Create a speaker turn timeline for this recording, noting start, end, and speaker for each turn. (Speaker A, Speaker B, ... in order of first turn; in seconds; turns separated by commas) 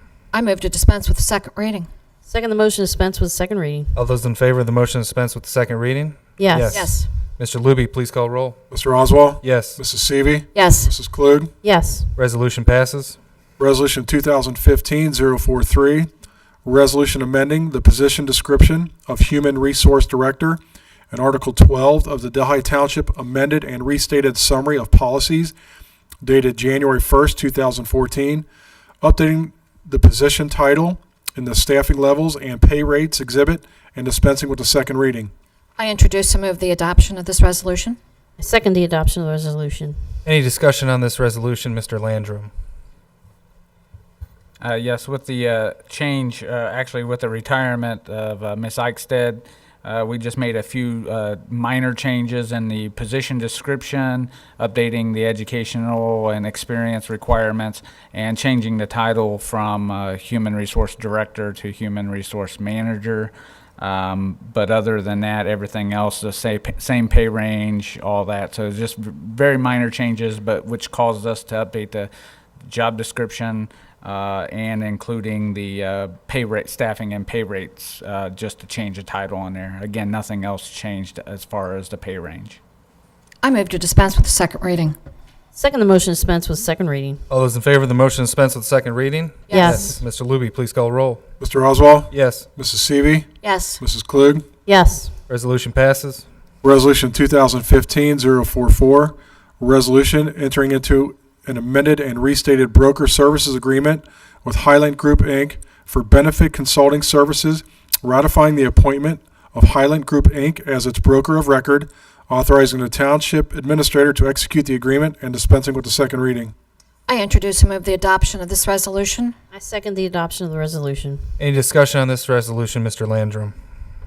Speaker A: 0.3-1.9, Speaker B: 2.2-3.9, Speaker C: 3.9-8.6, Speaker B: 6.4-6.9, Speaker A: 6.7-7.1, Speaker D: 8.7-11.5, Speaker C: 9.4-9.8, Speaker A: 10.5-10.9, Speaker B: 11.6-12.1, Speaker C: 12.2-13.2, Speaker D: 13.6-16.1, Speaker D: 16.6-20.6, Speaker D: 21.1-25.5, Speaker D: 26.2-28.4, Speaker D: 29.0-35.3, Speaker A: 35.8-38.0, Speaker B: 38.4-40.0, Speaker C: 40.2-42.5, Speaker E: 44.6-72.1, Speaker E: 72.6-82.6, Speaker A: 83.4-84.9, Speaker B: 85.5-87.2, Speaker C: 87.3-91.2, Speaker A: 89.5-90.0, Speaker B: 89.5-90.0, Speaker D: 91.4-93.3, Speaker C: 92.1-92.5, Speaker A: 93.4-93.8, Speaker D: 93.8-94.4, Speaker B: 94.6-95.1, Speaker C: 95.3-96.2, Speaker D: 96.6-116.5, Speaker A: 117.1-119.3, Speaker B: 119.5-121.2, Speaker C: 121.4-123.5